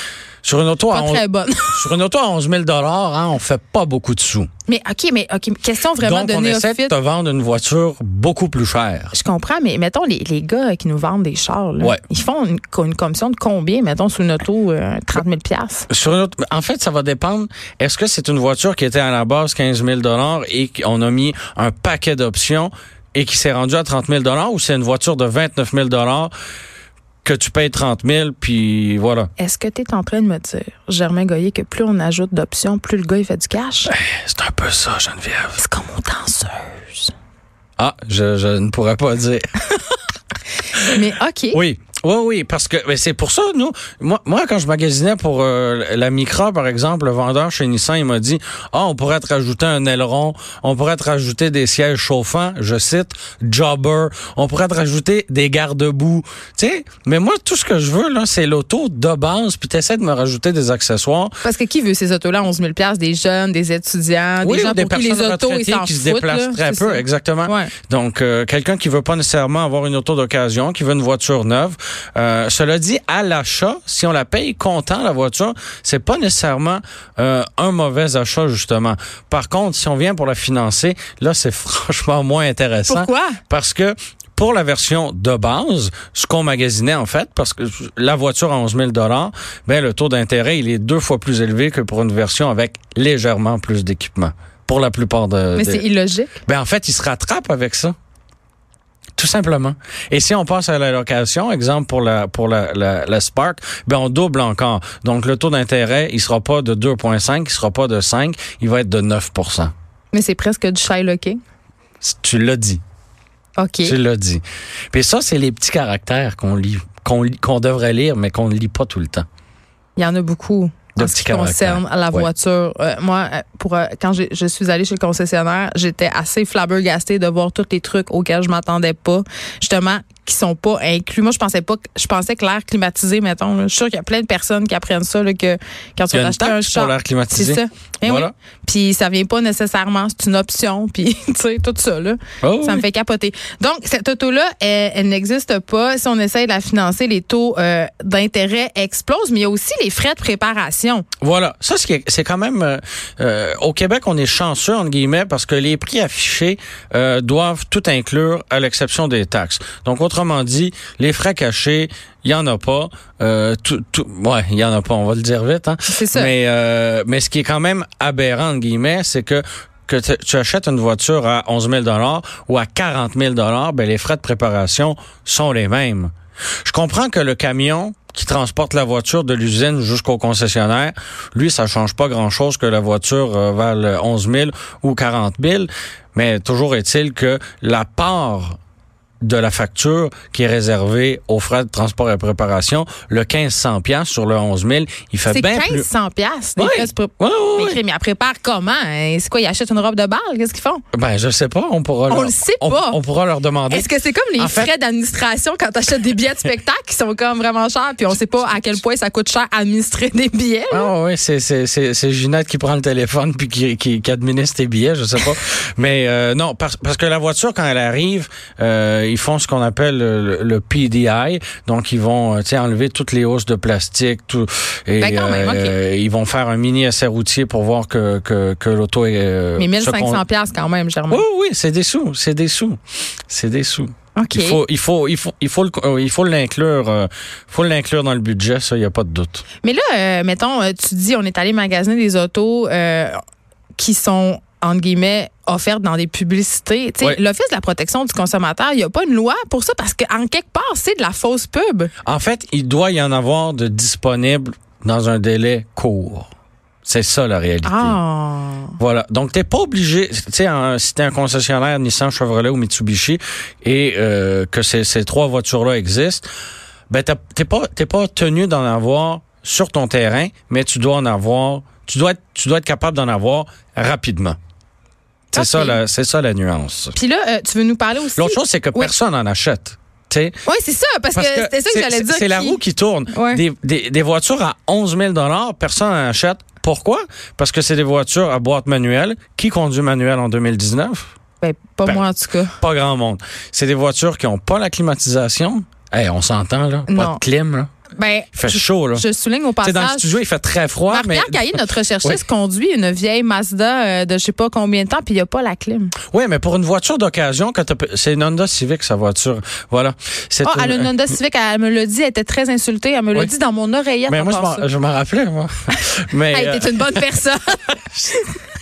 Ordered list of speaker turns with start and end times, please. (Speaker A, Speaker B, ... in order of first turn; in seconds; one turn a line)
Speaker A: 0.4-4.5
Speaker B: 0.9-1.9
Speaker B: 4.7-6.9
Speaker A: 6.0-9.1
Speaker B: 9.1-15.9
Speaker A: 15.9-26.3
Speaker A: 27.2-29.3
Speaker B: 29.4-33.9
Speaker A: 33.9-35.6
Speaker B: 35.6-37.1
Speaker A: 37.8-39.5
Speaker B: 40.8-41.6
Speaker A: 41.5-61.4
Speaker B: 61.4-67.7
Speaker A: 64.4-95.8
Speaker B: 82.9-83.4
Speaker B: 95.5-96.4
Speaker A: 96.5-97.9
Speaker A: 99.2-109.7
Speaker B: 110.1-111.4
Speaker A: 112.0-112.8
Speaker B: 113.6-114.0
Speaker A: 113.8-119.3
Speaker B: 120.0-151.1
Speaker A: 121.0-122.3
Speaker A: 136.1-138.3
Speaker A: 142.4-142.8
Speaker A: 151.2-176.1
Speaker B: 165.9-166.3
Speaker A: 176.7-188.6
Speaker A: 189.2-195.9
Speaker B: 195.3-200.8
Speaker A: 196.6-197.8
Speaker A: 200.9-204.7
Speaker B: 202.1-203.0
Speaker B: 203.7-210.9
Speaker A: 210.7-230.2
Speaker B: 225.0-225.8
Speaker B: 229.6-231.2
Speaker A: 231.1-239.4
Speaker B: 234.2-234.6
Speaker B: 239.6-243.2
Speaker B: 243.8-251.9
Speaker A: 252.0-256.3
Speaker A: 256.9-258.0
Speaker B: 257.6-258.8
Speaker A: 258.8-266.3
Speaker A: 266.9-274.4
Speaker B: 275.3-275.8
Speaker A: 275.3-277.0
Speaker B: 276.9-278.9
Speaker A: 278.2-280.4
Speaker B: 280.4-282.6
Speaker A: 281.1-291.0
Speaker B: 283.1-283.4
Speaker B: 291.4-292.6
Speaker A: 292.6-297.7
Speaker B: 296.9-297.2
Speaker B: 297.9-300.1
Speaker A: 298.3-299.1
Speaker A: 299.6-302.2
Speaker B: 300.9-305.9
Speaker A: 306.1-310.9
Speaker B: 310.4-314.7
Speaker A: 314.1-317.1
Speaker B: 316.3-318.3